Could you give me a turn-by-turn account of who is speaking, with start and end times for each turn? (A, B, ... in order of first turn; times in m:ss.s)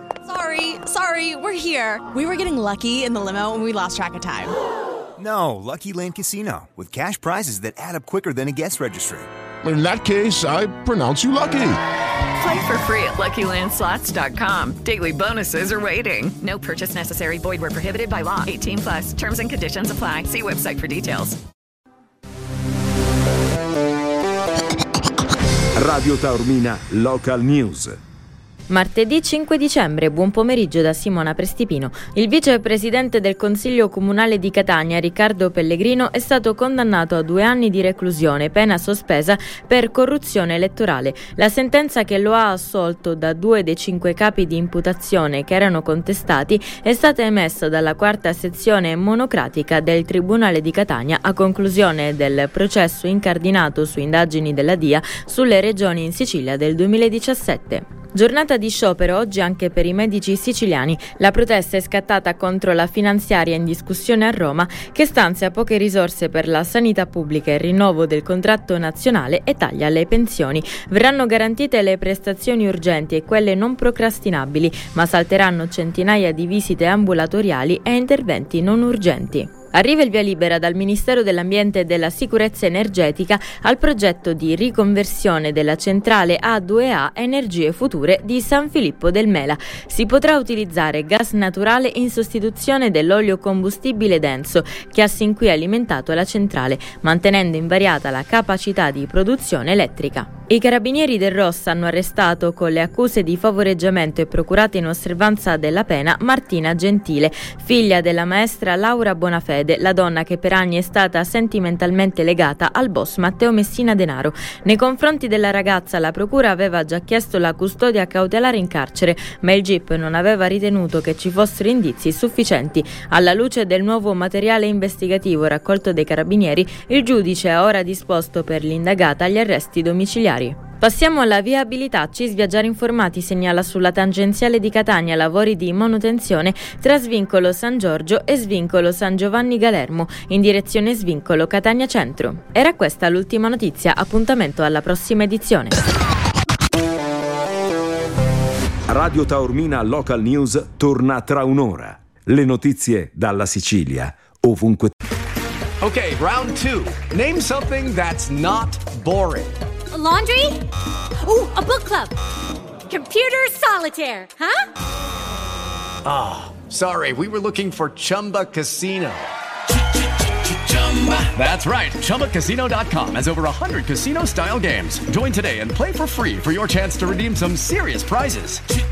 0:00.2-0:04.5 A
0:05.2-0:09.3 B
0:09.6-0:11.8 C
0:12.4-0:21.4 D
0:25.8-0:28.0 E
0:28.7-2:25.7 F
2:28.9-2:34.9 E
2:35.8-2:39.5 G
2:39.9-2:40.6 H
2:41.2-2:42.1 H
2:42.9-2:44.6 H
2:46.0-2:49.3 G
2:50.8-2:58.6 G